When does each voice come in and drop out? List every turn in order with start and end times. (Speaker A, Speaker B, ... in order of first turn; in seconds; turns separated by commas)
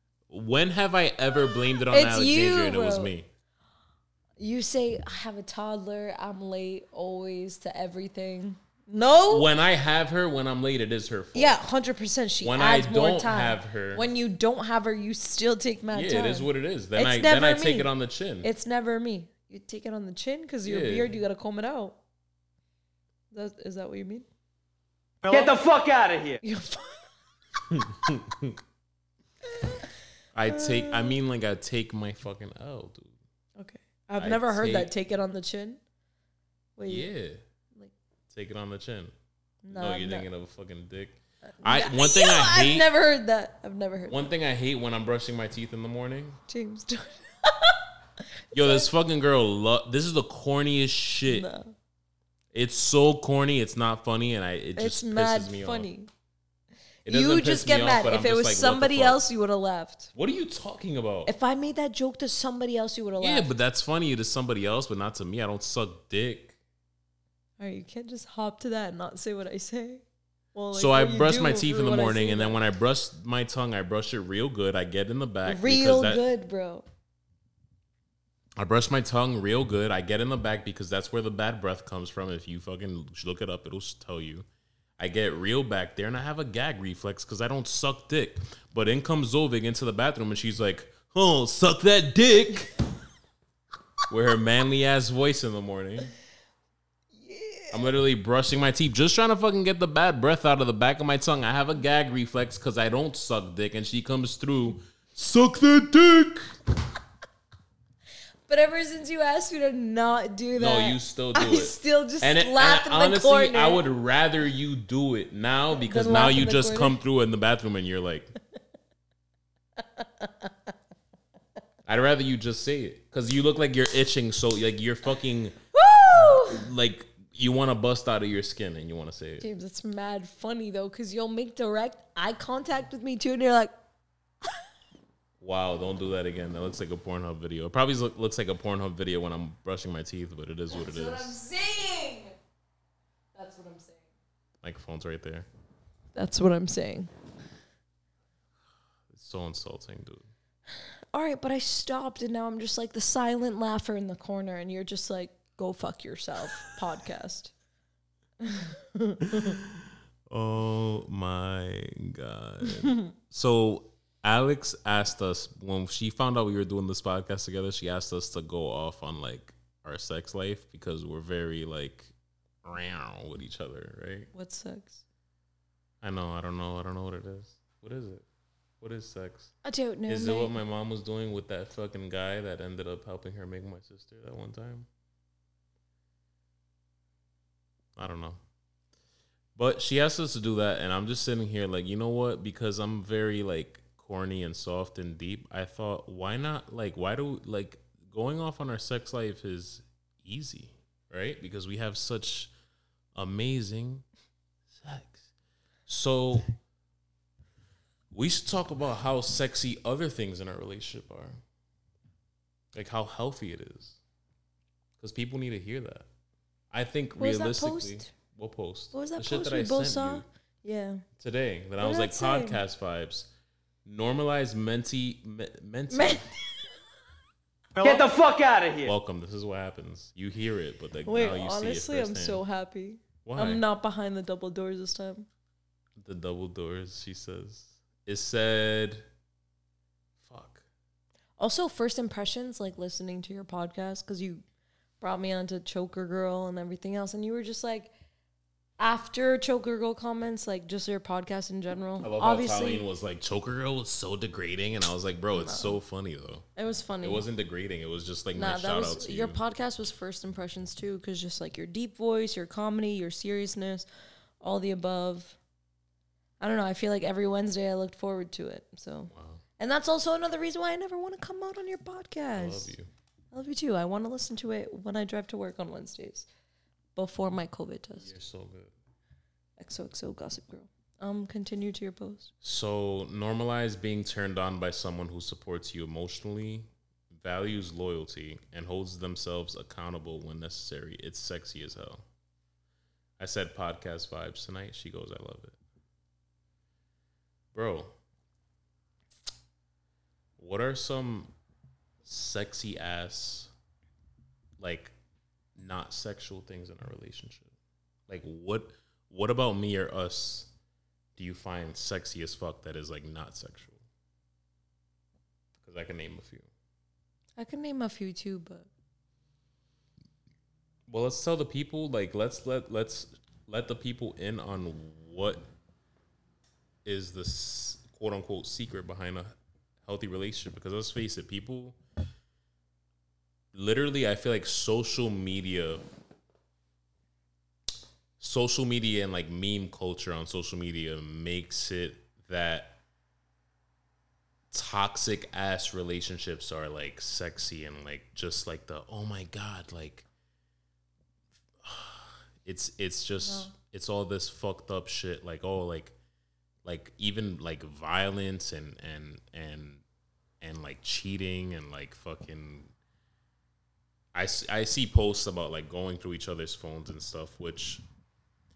Speaker A: 0.3-3.3, Speaker B: 1.8-3.1, Speaker B: 4.4-9.5, Speaker A: 9.3-11.5, Speaker B: 11.3-17.9, Speaker A: 12.4-14.1, Speaker A: 15.9-18.5, Speaker B: 18.4-22.0, Speaker A: 20.6-21.1, Speaker B: 23.3-24.3, Speaker C: 25.2-26.4, Speaker B: 25.3-25.5, Speaker B: 26.4-27.1, Speaker A: 27.7-28.6, Speaker B: 29.5-29.9, Speaker A: 30.3-33.2, Speaker B: 30.5-31.2, Speaker B: 33.6-35.8, Speaker A: 34.2-34.9, Speaker B: 36.8-37.1, Speaker A: 36.9-37.4, Speaker A: 38.3-39.1, Speaker B: 39.6-40.3, Speaker A: 39.7-42.9, Speaker B: 41.6-44.3, Speaker A: 44.1-46.4, Speaker B: 46.5-47.9, Speaker B: 48.5-48.9, Speaker A: 48.5-51.5, Speaker B: 51.2-51.7, Speaker A: 52.5-55.9, Speaker B: 54.8-56.1, Speaker B: 57.0-60.1, Speaker A: 57.0-59.2, Speaker A: 60.1-61.3, Speaker B: 61.2-63.5, Speaker A: 63.2-66.6, Speaker B: 67.6-70.0, Speaker B: 70.5-72.6, Speaker A: 70.7-76.2, Speaker B: 75.4-76.8, Speaker A: 78.6-84.5, Speaker A: 85.0-92.8, Speaker A: 94.1-96.1, Speaker B: 97.1-97.8, Speaker A: 97.7-106.5, Speaker B: 108.5-113.8, Speaker A: 110.5-118.3, Speaker B: 115.7-117.0, Speaker B: 119.8-120.5, Speaker A: 121.8-129.5, Speaker B: 125.7-126.7, Speaker B: 129.4-133.7, Speaker A: 135.4-141.4, Speaker B: 140.7-142.3, Speaker B: 143.3-144.0, Speaker A: 144.6-145.5, Speaker B: 146.1-147.1, Speaker A: 149.1-150.3, Speaker B: 150.9-157.5, Speaker B: 158.4-159.6, Speaker A: 159.3-174.3, Speaker B: 174.3-175.0, Speaker A: 176.0-178.2, Speaker A: 178.8-179.5, Speaker B: 179.6-180.6, Speaker A: 180.1-184.9, Speaker A: 187.9-188.4, Speaker A: 189.6-202.5, Speaker A: 203.1-204.1, Speaker A: 204.7-205.3, Speaker A: 205.9-206.5, Speaker A: 208.1-211.4, Speaker A: 212.7-214.0, Speaker A: 215.0-216.1, Speaker A: 216.7-220.2, Speaker B: 217.2-218.1, Speaker B: 218.9-221.0, Speaker A: 221.2-223.3, Speaker B: 221.8-222.6, Speaker A: 223.8-226.2, Speaker B: 225.9-226.8, Speaker C: 227.8-228.9, Speaker A: 228.8-232.4, Speaker B: 231.0-235.3, Speaker A: 233.2-233.6, Speaker A: 236.0-239.1, Speaker A: 240.2-240.7, Speaker B: 241.4-244.4, Speaker B: 245.0-247.9, Speaker B: 248.8-252.8, Speaker A: 252.0-256.5, Speaker B: 255.3-255.8, Speaker B: 256.6-257.2, Speaker A: 257.0-259.4, Speaker B: 258.3-263.9, Speaker B: 264.4-265.4, Speaker B: 266.4-272.7, Speaker A: 269.1-269.4, Speaker A: 272.3-272.9, Speaker B: 273.3-276.3, Speaker B: 276.9-278.1, Speaker A: 278.0-278.7, Speaker B: 279.6-282.3, Speaker A: 282.4-292.0, Speaker A: 293.2-295.6, Speaker A: 297.5-297.9, Speaker A: 300.4-301.3, Speaker A: 302.0-303.5, Speaker A: 304.6-304.9, Speaker A: 305.6-307.5, Speaker A: 308.1-310.5, Speaker A: 311.2-313.8, Speaker A: 315.6-316.5, Speaker B: 317.4-318.7, Speaker A: 320.9-325.4, Speaker A: 326.8-331.8, Speaker A: 333.5-335.8, Speaker A: 338.2-342.8, Speaker A: 344.5-350.1, Speaker A: 351.6-355.9, Speaker B: 353.2-353.5, Speaker A: 356.6-359.8, Speaker A: 360.4-362.7, Speaker A: 364.1-367.8